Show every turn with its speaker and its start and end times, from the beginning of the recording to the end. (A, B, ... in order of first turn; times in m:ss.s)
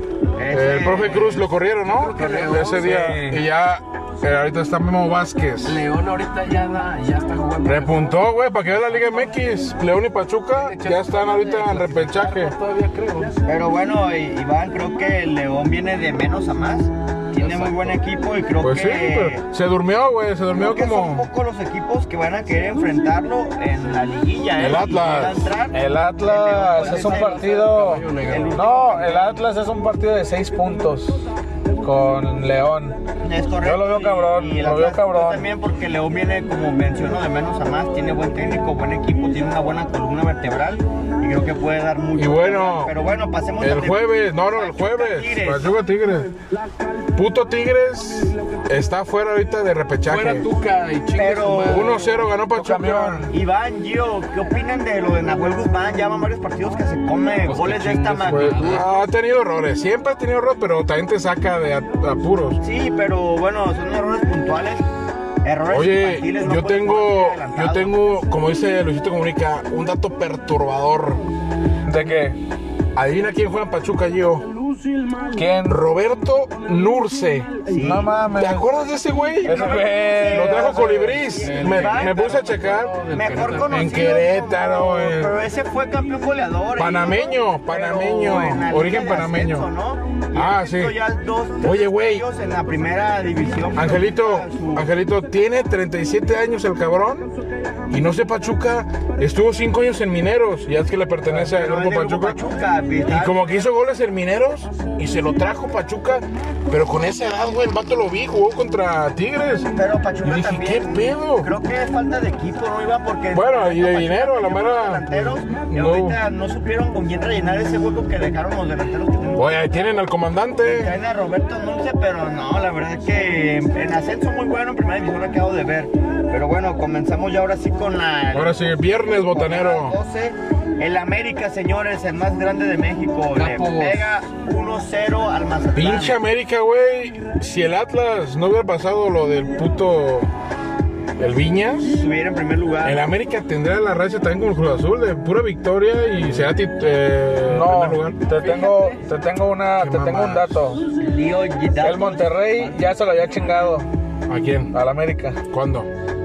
0:00.4-0:01.5 A
0:00.5-0:05.8 B
0:01.8-0:03.0 C
0:02.8-0:03.4 D
0:05.6-0:08.3 C
0:07.6-0:12.6 B
0:08.9-0:09.2 C
0:10.5-0:13.3 C
0:13.4-0:19.4 A
0:17.3-0:18.0 C
0:18.6-0:21.3 B
0:20.5-0:27.6 A
0:24.6-0:25.5 B
0:25.7-0:31.2 D
0:26.7-0:28.6 C
0:28.2-0:29.4 A
0:31.8-0:33.0 D
0:33.2-0:45.7 A
0:33.6-0:35.5 D
0:42.2-0:43.0 B
0:43.6-0:46.3 B
0:47.1-0:50.5 B
0:50.0-0:52.0 C
0:51.2-0:52.1 A
0:51.6-0:53.3 B
0:52.5-0:53.3 D
0:53.3-0:58.8 A
0:57.4-0:58.9 C
0:58.2-1:02.6 B
1:02.6-1:04.8 A
1:05.4-1:07.9 A
1:05.7-1:11.2 B
1:11.8-1:12.4 D
1:12.9-1:14.5 B
1:15.3-1:15.8 D
1:15.7-1:17.5 B
1:17.7-1:18.1 A
1:17.8-1:18.7 D
1:18.4-1:23.0 B
1:19.4-1:20.9 D
1:19.4-1:22.4 A
1:21.4-1:23.9 C
1:23.1-1:34.8 A
1:23.6-1:25.4 B
1:26.8-1:29.7 B
1:30.3-1:31.0 B
1:31.6-1:32.2 B
1:33.7-1:37.3 B
1:37.9-1:42.4 B
1:41.3-1:43.5 A
1:43.1-1:49.7 B
1:49.7-1:59.5 A
1:50.2-1:51.5 B
1:53.3-1:56.2 B
1:59.4-2:01.0 B
2:00.7-2:08.6 A
2:08.3-2:10.0 B
2:09.2-2:16.2 A
2:13.3-2:14.1 C
2:15.7-2:20.3 B
2:21.2-2:22.0 B
2:21.8-2:23.0 A
2:22.8-2:28.2 B
2:27.4-2:30.8 D
2:29.8-2:30.6 B
2:30.9-2:32.8 A
2:31.8-2:33.9 D
2:34.3-2:34.7 B
2:34.7-2:35.4 D
2:35.5-2:35.9 B